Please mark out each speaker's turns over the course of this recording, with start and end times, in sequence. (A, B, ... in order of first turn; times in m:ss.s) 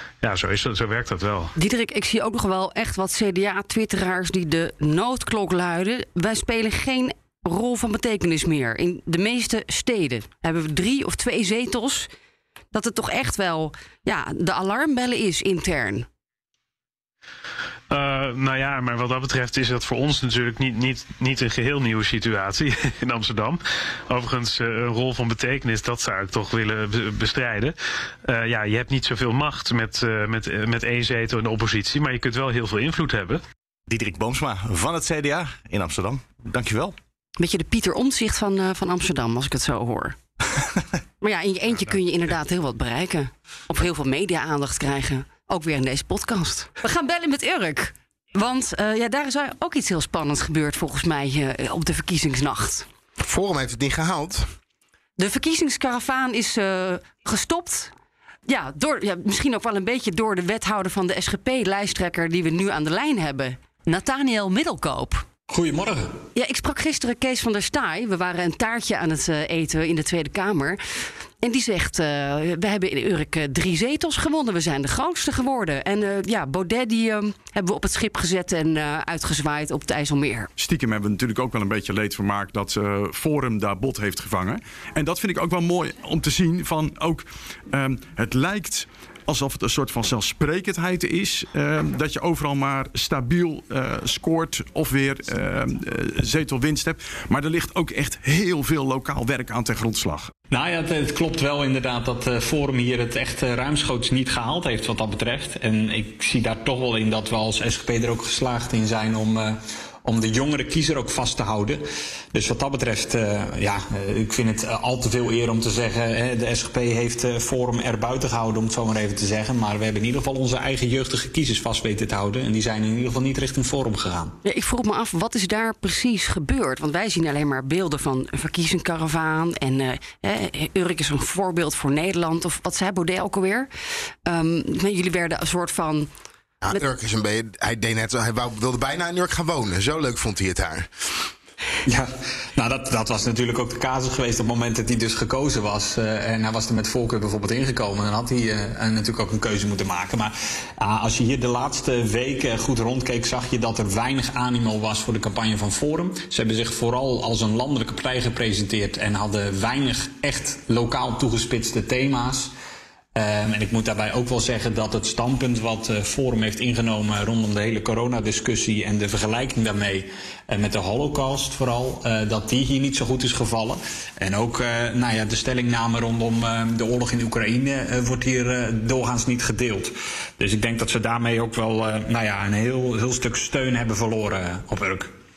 0:00.2-0:01.5 A
0:01.6-0:12.1 B
0:12.7-0:16.1 B
0:17.9-0:33.4 A
0:33.9-0:37.0 C
0:37.4-0:40.2 B
0:41.2-0:52.9 B
0:53.2-0:54.5 D
0:55.2-0:57.9 B
0:58.5-1:05.2 B
1:05.5-1:06.1 E
1:06.4-1:10.8 B
1:11.4-1:20.5 B
1:20.6-1:40.3 F
1:40.5-2:04.3 E
2:04.4-2:13.7 B
2:14.3-2:16.1 B
2:16.6-2:21.2 D
2:21.9-2:42.5 E
2:43.2-3:05.1 E